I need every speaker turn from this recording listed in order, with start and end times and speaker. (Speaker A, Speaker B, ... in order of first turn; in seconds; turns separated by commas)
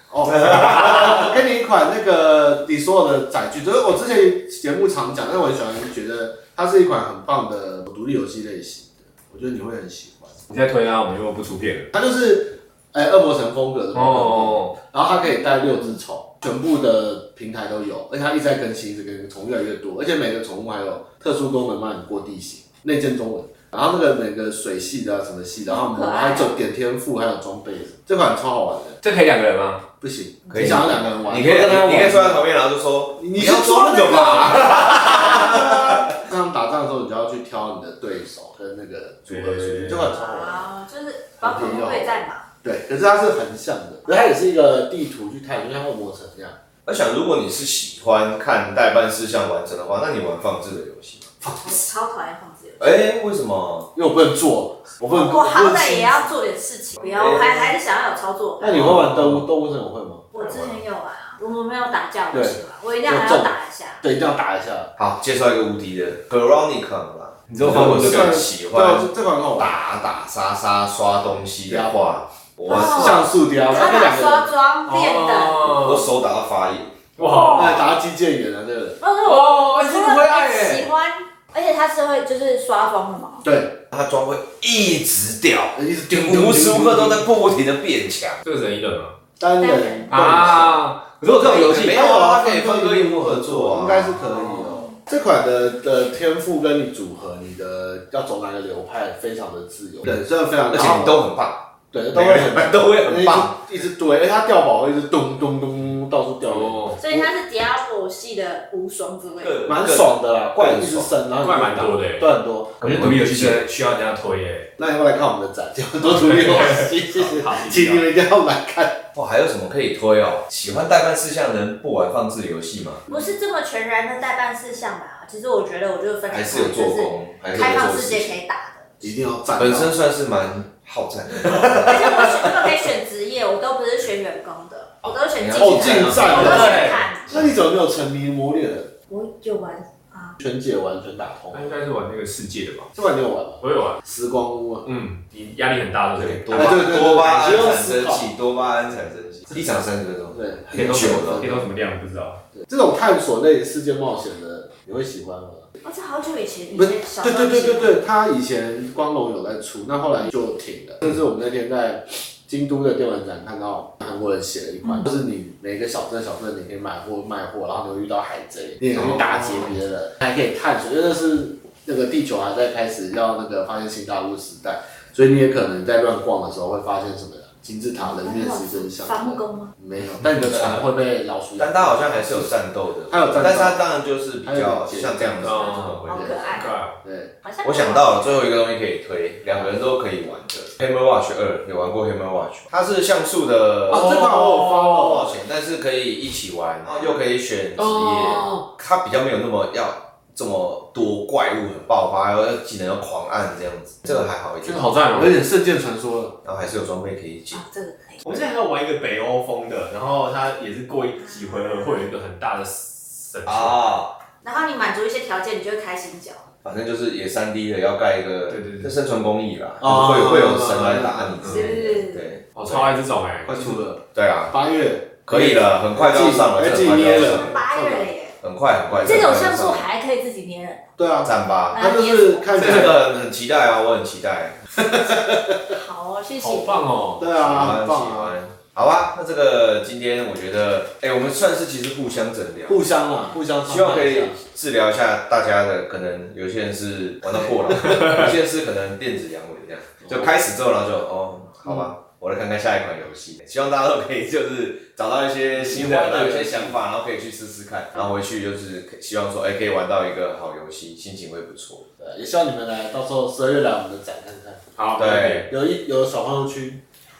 Speaker A: 0.1-10.4, Speaker B: 0.3-1.1, Speaker B: 10.5-11.9, Speaker A: 11.9-29.0, Speaker B: 13.9-14.7, Speaker C: 25.7-26.5, Speaker B: 29.0-29.8, Speaker A: 30.0-32.5, Speaker D: 30.5-36.2, Speaker A: 33.2-40.7, Speaker B: 39.3-40.1, Speaker C: 40.0-42.5, Speaker A: 41.4-46.6, Speaker D: 46.9-51.4, Speaker A: 51.4-51.8, Speaker C: 51.6-53.0, Speaker D: 52.8-53.9, Speaker A: 53.9-56.3, Speaker C: 55.1-59.0, Speaker D: 57.0-57.7, Speaker A: 58.6-60.2, Speaker B: 58.7-59.4, Speaker C: 60.3-64.0, Speaker B: 60.4-60.8, Speaker A: 62.3-64.9, Speaker D: 65.0-73.3, Speaker B: 67.5-68.4, Speaker A: 67.6-69.8, Speaker A: 71.7-72.0, Speaker C: 72.7-75.8, Speaker A: 72.7-74.5, Speaker B: 74.8-76.0, Speaker D: 75.7-76.9, Speaker B: 77.2-77.9, Speaker A: 77.5-79.0, Speaker C: 79.0-83.4, Speaker B: 79.2-80.9, Speaker A: 83.4-83.8, Speaker D: 83.9-88.4, Speaker A: 85.7-87.2, Speaker B: 88.4-89.2, Speaker A: 89.4-101.2, Speaker C: 89.6-90.3, Speaker B: 90.1-92.0, Speaker D: 91.4-94.1, Speaker D: 100.7-103.6, Speaker A: 101.9-107.3, Speaker B: 106.4-107.0, Speaker C: 107.0-109.6, Speaker D: 109.4-111.1, Speaker A: 109.7-112.7, Speaker B: 111.4-112.3, Speaker D: 112.8-113.6, Speaker B: 112.8-114.7, Speaker A: 114.8-119.0, Speaker B: 116.0-118.0, Speaker D: 119.1-123.0, Speaker C: 123.1-129.0, Speaker D: 126.3-128.3, Speaker A: 129.0-129.9, Speaker D: 129.6-132.7, Speaker C: 131.8-137.5, Speaker D: 135.0-137.6, Speaker A: 135.5-138.9, Speaker B: 136.2-137.0, Speaker C: 139.1-140.3, Speaker A: 140.4-141.8, Speaker B: 141.5-142.9, Speaker A: 142.9-144.8, Speaker B: 143.6-144.0, Speaker B: 144.8-147.7, Speaker D: 146.2-151.5, Speaker A: 146.5-148.3, Speaker A: 150.3-151.7, Speaker B: 150.7-152.4, Speaker A: 152.7-155.6, Speaker C: 155.8-157.9, Speaker A: 156.7-182.5, Speaker C: 164.8-165.1, Speaker C: 178.0-179.7, Speaker B: 180.4-180.7, Speaker D: 181.6-186.6, Speaker A: 183.1-183.8, Speaker A: 184.4-187.3, Speaker B: 185.4-186.9, Speaker C: 185.6-186.8, Speaker C: 187.4-188.4, Speaker D: 187.6-204.9, Speaker A: 193.9-195.3, Speaker B: 193.9-195.1, Speaker B: 197.8-198.6, Speaker B: 204.1-205.4, Speaker A: 205.1-206.3, Speaker D: 206.4-207.6, Speaker C: 207.5-208.4, Speaker B: 208.2-213.8, Speaker C: 211.2-212.1, Speaker D: 213.4-214.1, Speaker C: 214.4-216.5, Speaker D: 216.6-222.9, Speaker B: 218.5-218.9, Speaker A: 219.8-221.5, Speaker B: 221.4-221.7, Speaker C: 221.5-222.2, Speaker B: 222.5-223.8, Speaker A: 223.4-228.1, Speaker D: 224.1-224.5, Speaker D: 225.2-227.5, Speaker C: 227.2-228.3, Speaker D: 228.4-229.9, Speaker C: 229.0-230.8, Speaker A: 231.0-233.0, Speaker D: 231.2-231.8, Speaker C: 231.7-232.5, Speaker D: 232.5-234.6, Speaker A: 234.8-235.8, Speaker C: 235.7-236.9, Speaker B: 236.4-237.2, Speaker A: 237.2-238.3, Speaker D: 237.3-242.8, Speaker A: 242.7-244.4, Speaker D: 243.7-261.9, Speaker A: 255.6-256.8, Speaker A: 262.0-264.6, Speaker B: 264.8-265.5, Speaker D: 265.0-265.5, Speaker A: 265.5-266.8